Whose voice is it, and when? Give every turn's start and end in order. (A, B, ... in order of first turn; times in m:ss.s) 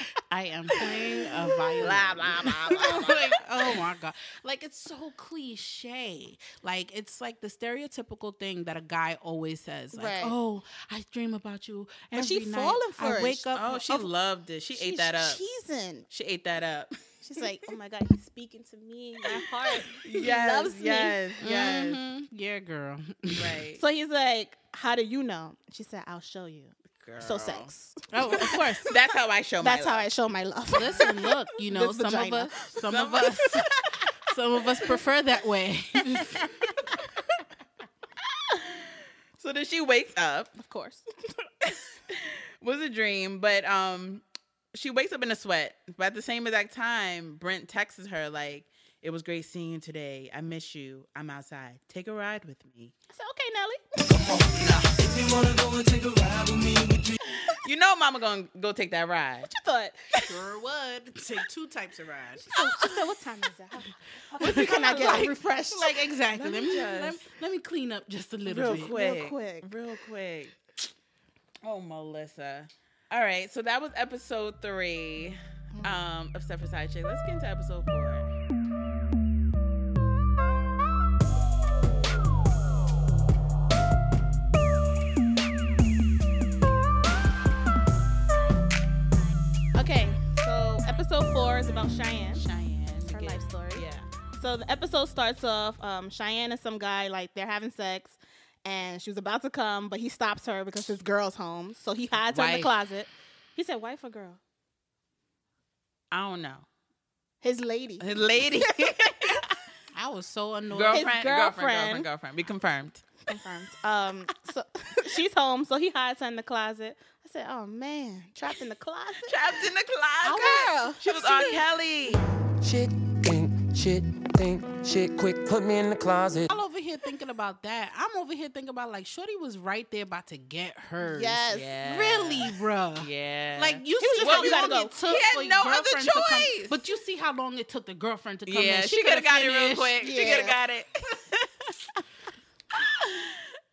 0:00.3-0:14.1 A
0:01.8-0:03.4 B
0:09.9-0:10.3 C
0:12.1-0:13.4 C
0:13.6-0:15.4 B
0:14.8-0:16.1 C
0:16.1-0:17.0 B
0:17.2-0:21.2 C
0:19.9-0:22.0 B
0:21.4-0:23.6 A
0:23.3-0:23.8 B
0:23.8-0:28.6 C
0:27.0-0:27.7 B
0:28.1-0:28.9 A
0:28.9-0:30.1 B
0:29.6-0:31.1 C
0:30.7-0:36.6 A
0:31.7-0:32.7 C
0:32.9-0:33.5 B
0:39.4-0:40.5 B
0:40.6-0:41.0 C
0:41.6-0:44.2 B
0:44.7-0:53.0 B
0:53.1-0:54.4 C
0:56.2-0:56.9 D
0:57.6-0:59.6 B
0:59.6-1:00.0 C
1:00.3-1:02.9 A
1:02.4-1:07.0 C
1:04.4-1:08.9 A
1:06.7-1:07.2 B
1:08.5-1:10.6 B
1:08.6-1:09.7 C
1:11.6-1:18.3 B
1:29.8-1:32.4 C
1:32.4-1:34.1 B
1:33.1-1:44.4 C
1:42.3-1:42.7 A
1:46.1-1:46.7 B
1:47.4-1:48.0 C
1:48.0-1:49.6 B
1:49.9-1:51.1 A
1:50.7-1:53.1 B
1:50.9-1:52.1 C
1:53.3-1:59.3 C
1:59.3-2:02.2 B
2:00.2-2:01.6 C
2:02.6-2:06.6 D
2:06.5-2:20.2 A
2:11.0-2:11.7 C
2:11.5-2:16.8 B
2:14.0-2:15.0 C
2:18.5-2:22.0 B
2:20.0-2:20.6 C
2:22.8-2:23.5 B